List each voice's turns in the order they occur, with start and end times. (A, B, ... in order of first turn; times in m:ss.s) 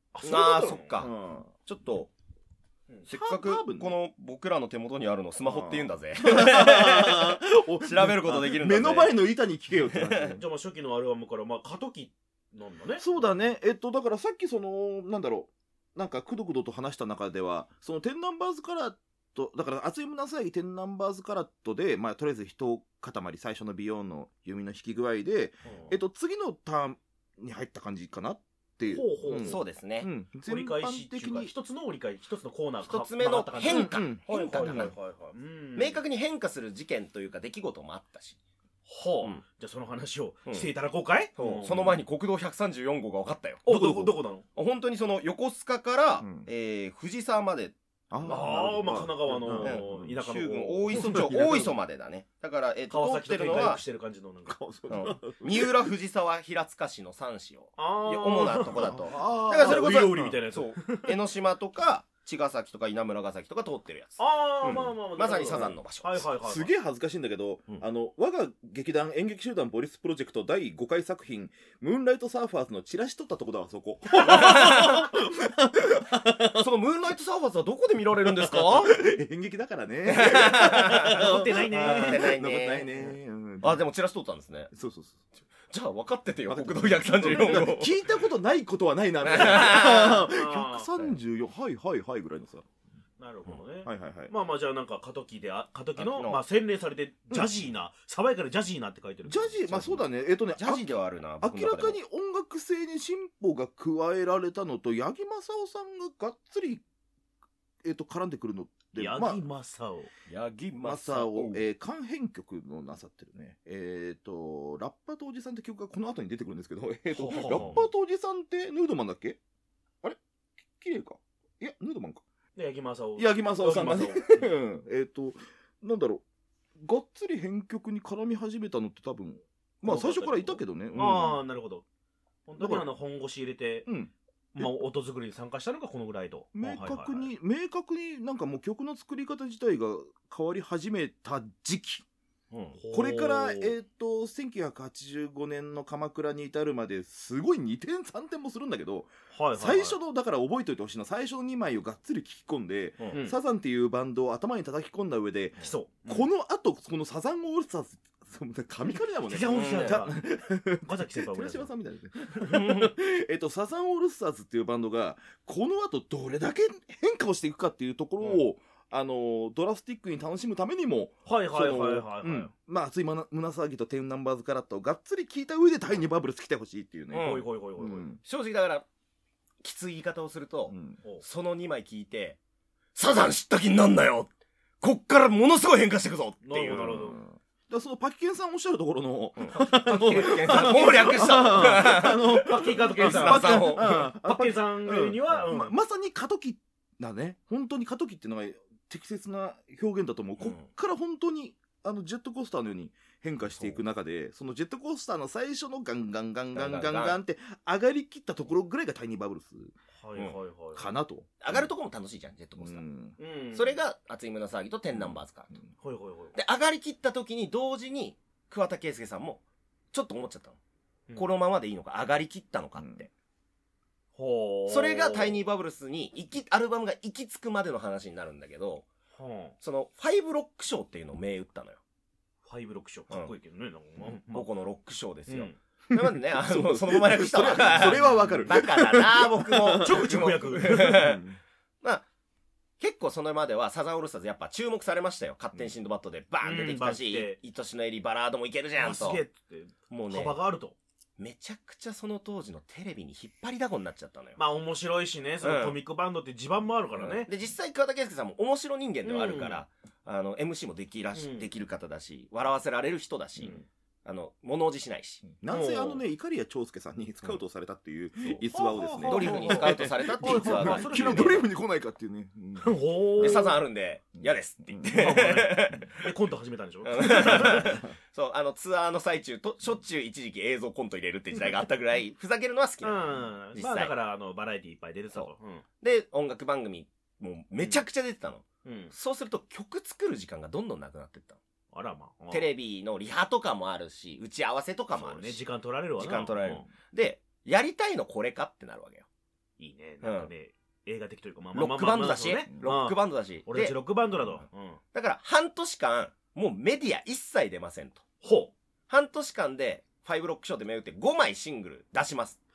0:00.1-0:01.0 A
0:00.2-0:01.1 B
0:01.0-0:01.5 C
0:01.6-0:02.1 B
0:03.1-0:09.2 B
0:03.1-0:04.0 C
0:05.4-0:10.4 C
0:09.8-0:10.4 B
0:10.4-0:13.0 A
0:13.0-0:31.5 C
0:25.6-0:26.0 A
0:28.9-0:29.6 A
0:29.4-0:30.1 B
0:30.5-0:36.0 A
0:32.8-0:35.0 B
0:33.6-0:34.9 C
0:35.8-0:38.4 B
0:38.9-0:41.8 A
0:41.4-0:43.7 B
0:41.6-0:42.0 C
0:43.6-0:44.4 A
0:43.7-0:44.2 C
0:44.6-0:48.5 B
0:46.2-0:46.5 C
0:48.1-0:50.2 C
0:48.3-0:51.4 A
0:49.6-0:53.8 B
0:50.9-0:51.8 C
0:52.9-0:54.6 A
0:54.5-0:55.9 C
0:54.9-1:06.2 B
0:57.8-1:01.2 A
0:58.8-1:00.4 C
1:04.2-1:06.7 A
1:04.7-1:05.8 C
1:06.4-1:16.7 C
1:14.3-1:15.1 B
1:16.5-1:19.0 B
1:18.2-1:23.9 C
1:20.1-1:24.7 B
1:21.1-1:22.3 A
1:24.7-1:25.2 C
1:25.7-1:28.0 B
1:26.5-1:32.7 C
1:29.2-1:30.3 B
1:30.1-1:30.9 A
1:33.2-1:40.0 A
1:33.8-1:34.3 C
1:36.0-1:36.4 B
1:39.3-1:46.8 C
1:40.6-1:42.0 B
1:47.8-1:49.4 C
1:49.0-1:50.1 A
1:50.3-1:51.6 B
1:50.8-1:59.4 C
1:57.1-1:57.8 A
2:00.8-2:02.2 C
2:02.6-2:04.5 A
2:03.2-2:06.2 C
2:06.8-2:11.4 C
2:09.8-2:11.8 A
2:12.5-2:13.9 A
2:12.6-2:12.9 C
2:13.9-2:14.7 C
2:14.6-2:17.3 A
2:16.5-2:22.0 C
2:22.5-2:22.8 B
2:22.8-2:23.7 A
2:22.9-2:58.2 C
2:29.3-2:30.0 A
2:35.6-2:36.3 A
2:39.3-2:40.2 A
2:39.5-2:40.0 B
2:40.8-2:41.7 A
2:42.5-2:42.9 B
2:51.3-2:52.5 A
2:57.1-2:57.5 B
2:57.1-2:58.1 A
2:58.2-2:58.9 B
2:59.6-3:02.4 B
3:00.7-3:01.0 C
3:03.0-3:07.0 B
3:06.4-3:07.2 A
3:06.7-3:29.8 C
3:09.4-3:14.1 B
3:10.4-3:15.8 A
3:20.4-3:20.7 B
3:23.5-3:23.8 B
3:26.5-3:27.2 B
3:30.0-3:30.9 A
3:30.8-3:31.7 C
3:31.4-3:32.8 B
3:32.6-3:33.2 C
3:33.2-3:33.8 A
3:33.5-3:35.6 B
3:35.8-3:36.4 A
3:36.4-3:39.4 B
3:39.9-3:40.6 B
3:41.2-3:43.1 B
3:42.8-3:43.0 C
3:44.2-3:45.4 A
3:44.7-3:48.9 B
3:49.2-3:49.6 A
3:49.6-3:51.8 B
3:52.4-3:54.5 A
3:54.3-4:01.2 B
3:55.3-3:55.6 A
3:55.9-4:01.4 C
3:57.8-3:58.4 A
3:59.8-4:01.1 A
4:02.8-4:09.2 B
4:06.4-4:07.4 A
4:08.8-4:10.8 A
4:09.9-4:10.4 B
4:11.2-4:14.4 B
4:14.4-4:17.3 A
4:15.4-4:15.8 B
4:17.0-4:25.2 B
4:19.0-4:19.6 A
4:21.2-4:21.5 A
4:23.4-4:23.7 A
4:25.2-4:33.4 C
4:25.5-4:26.0 A
4:28.2-4:31.5 A
4:29.1-4:31.4 B
4:32.6-4:33.5 A
4:33.2-4:36.1 B
4:34.7-4:35.8 C
4:34.9-4:37.8 A
4:36.8-4:43.9 B
4:42.8-4:45.6 A
4:45.1-4:51.4 B
4:47.6-4:47.8 A
4:48.6-4:48.9 A
4:51.7-4:52.5 A
4:52.3-4:55.4 B
4:54.9-4:56.7 A
4:56.0-4:59.1 B
4:59.6-5:04.8 A
5:00.0-5:00.3 B
5:01.6-5:03.8 B
5:04.9-5:08.0 B
5:08.2-5:08.5 A
5:08.9-5:12.4 B